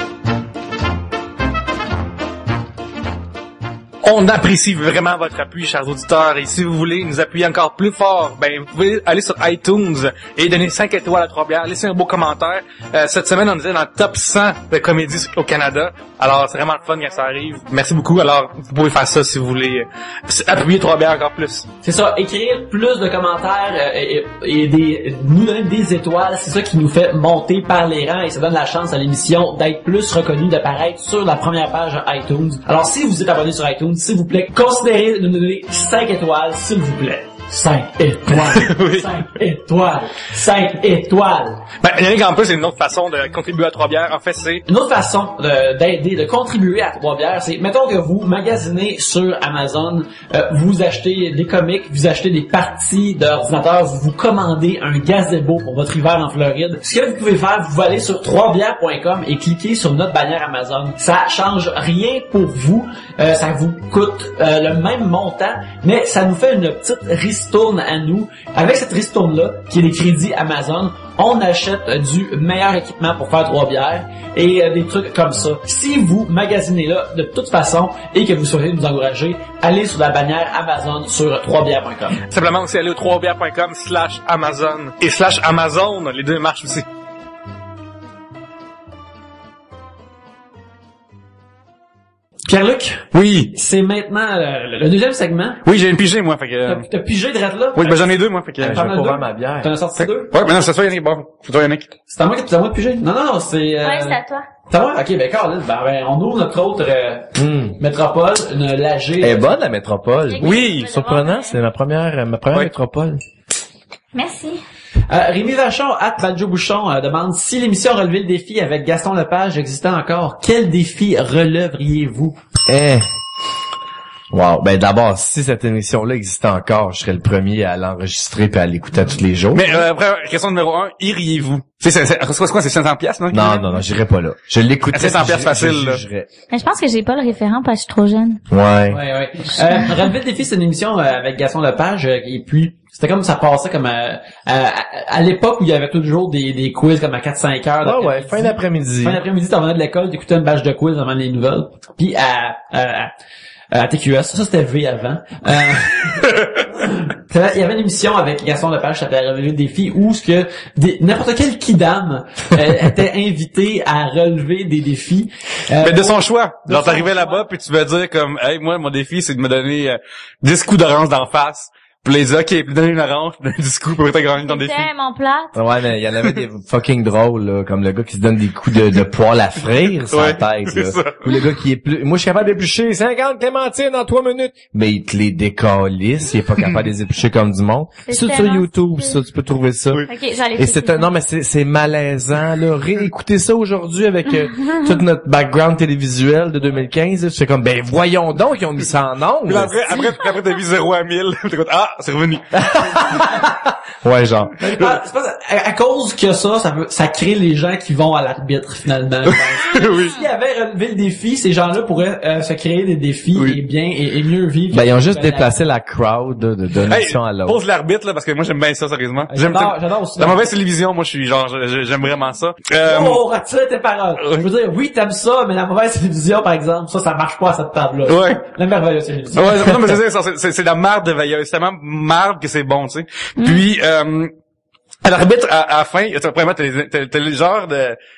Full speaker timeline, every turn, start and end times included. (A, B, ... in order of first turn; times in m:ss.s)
0:04.0-0:21.7 A
0:21.8-0:41.6 B
0:38.4-0:39.1 A
0:41.8-0:44.6 A
0:44.7-1:22.2 B
1:22.3-1:26.8 A
1:32.4-1:35.6 B
1:33.1-1:33.5 A
1:35.6-1:36.9 A
1:36.6-1:40.4 B
1:37.8-1:38.9 A
1:38.6-1:39.7 C
1:40.0-1:41.9 A
1:42.1-1:49.5 B
1:43.8-1:44.4 D
1:47.4-1:47.8 C
1:49.2-1:53.2 C
1:50.3-1:51.6 D
1:50.4-1:50.9 A
1:54.1-1:54.6 D
1:55.1-2:02.4 B
2:02.7-2:03.1 C
2:04.3-2:09.8 C
2:09.5-2:13.7 A
2:13.3-2:16.3 C
2:14.9-2:16.0 A
2:16.5-2:18.4 D
2:18.5-2:19.0 C
2:18.9-2:33.1 B
2:27.8-2:29.2 C
2:33.7-2:47.4 B
2:36.2-2:36.6 A
2:45.8-2:54.9 A
2:54.4-2:55.6 D
2:55.5-3:19.9 C
3:00.0-3:01.4 A
3:08.1-3:09.2 D
3:10.1-3:11.0 D
3:14.6-3:14.9 D
3:19.5-3:23.3 A
3:22.5-3:24.5 C
3:24.6-3:35.5 B
3:29.2-3:30.2 A
3:33.3-3:33.6 C
3:34.7-3:37.6 C
3:36.9-3:43.2 A
3:39.3-3:40.5 B
3:42.8-3:50.0 B
3:44.2-3:44.5 A
3:48.1-3:48.4 A
3:49.3-3:54.3 A
3:53.4-3:53.6 D
3:55.0-3:58.0 A